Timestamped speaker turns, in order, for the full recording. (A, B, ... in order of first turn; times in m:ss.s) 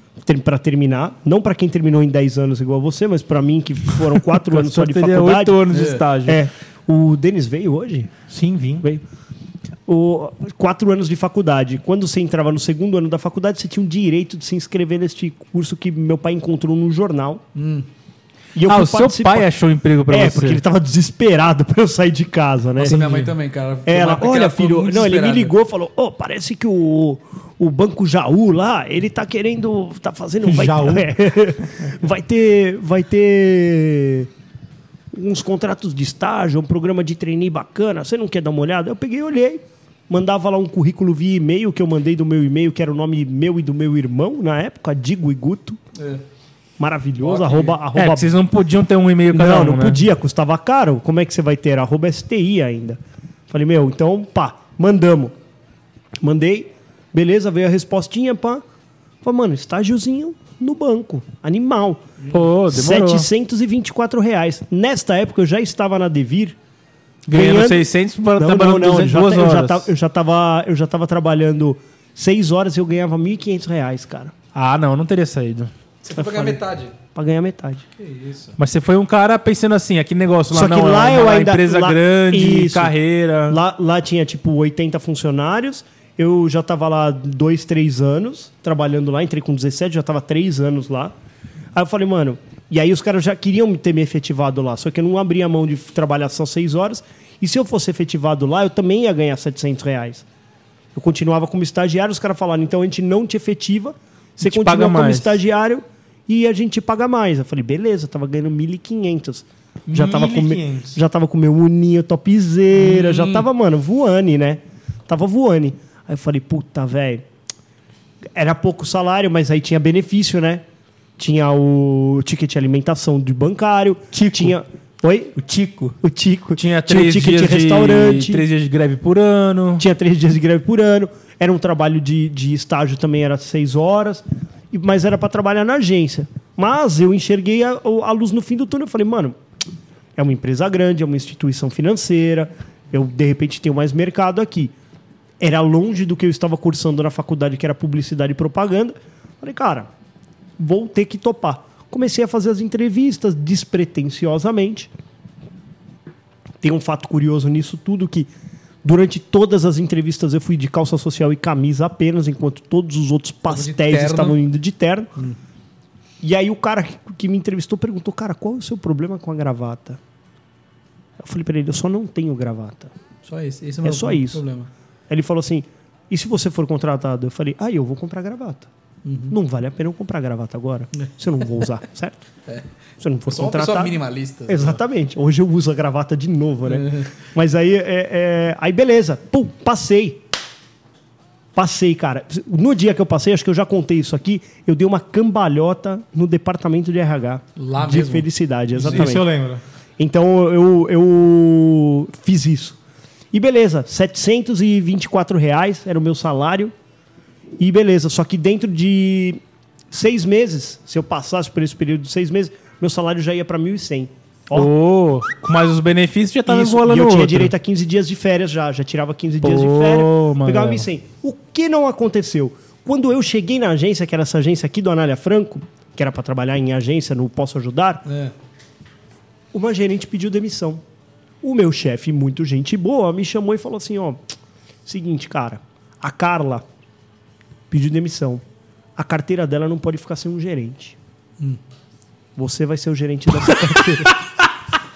0:00.2-0:08.2 A
0:04.5-0:06.4 B
0:05.7-0:06.0 C
0:08.3-0:08.8 B
0:09.9-0:17.4 A
0:17.6-0:17.9 C
0:18.6-0:19.5 A
0:18.7-0:20.6 B
0:20.1-0:23.2 A
0:22.8-0:25.5 C
0:23.9-0:34.3 A
0:30.4-0:31.2 D
0:35.1-0:45.8 A
0:46.0-0:46.2 C
0:46.8-0:48.4 A
0:47.2-0:47.8 C
0:48.0-0:50.0 B
0:49.3-0:53.0 A
0:53.5-0:55.3 A
0:56.2-0:58.6 A
0:59.2-1:02.1 A
1:02.3-1:03.3 B
1:02.7-1:06.6 A
1:07.3-1:09.9 B
1:07.3-1:14.3 A
1:14.6-1:15.7 B
1:16.0-1:17.0 C
1:16.2-1:16.6 A
1:17.2-1:17.8 A
1:18.0-1:18.6 C
1:18.6-1:23.6 B
1:20.5-1:23.0 A
1:23.5-1:31.1 A
1:31.8-1:40.2 A
1:41.0-1:57.2 A
1:44.4-1:45.4 B
1:49.9-1:51.0 D
1:52.8-1:53.5 C
1:58.4-2:00.6 A
2:01.2-2:05.4 A
2:05.4-2:05.9 B
2:06.0-2:08.5 A
2:06.6-2:09.8 B
2:09.8-2:19.4 A
2:20.2-2:24.7 A
2:25.4-2:29.9 A
2:30.6-2:34.9 A
2:36.6-2:38.3 A
2:38.8-2:45.1 A
2:43.5-2:44.4 C
2:46.2-2:50.0 A
2:51.2-2:52.9 A
2:53.2-2:54.7 C
2:53.8-2:54.4 A
2:55.1-2:58.7 A
2:59.0-2:59.4 C
2:59.3-3:02.2 A
3:03.0-3:10.2 A
3:03.3-3:04.8 C
3:06.6-3:07.1 C
3:11.6-3:19.3 A
3:17.6-3:18.3 C
3:18.8-3:19.6 D
3:18.8-3:19.2 C
3:20.0-3:22.8 A
3:23.3-3:26.7 A
3:27.6-3:29.4 A
3:29.9-3:34.7 A
3:34.5-3:37.5 B
3:36.5-3:48.0 A
3:39.4-3:40.8 B
3:48.1-3:48.3 C
3:49.5-3:50.8 A
3:51.4-3:54.2 A
3:54.9-3:56.6 A
3:57.7-3:58.4 A
3:59.0-4:01.0 A
4:02.4-4:04.2 A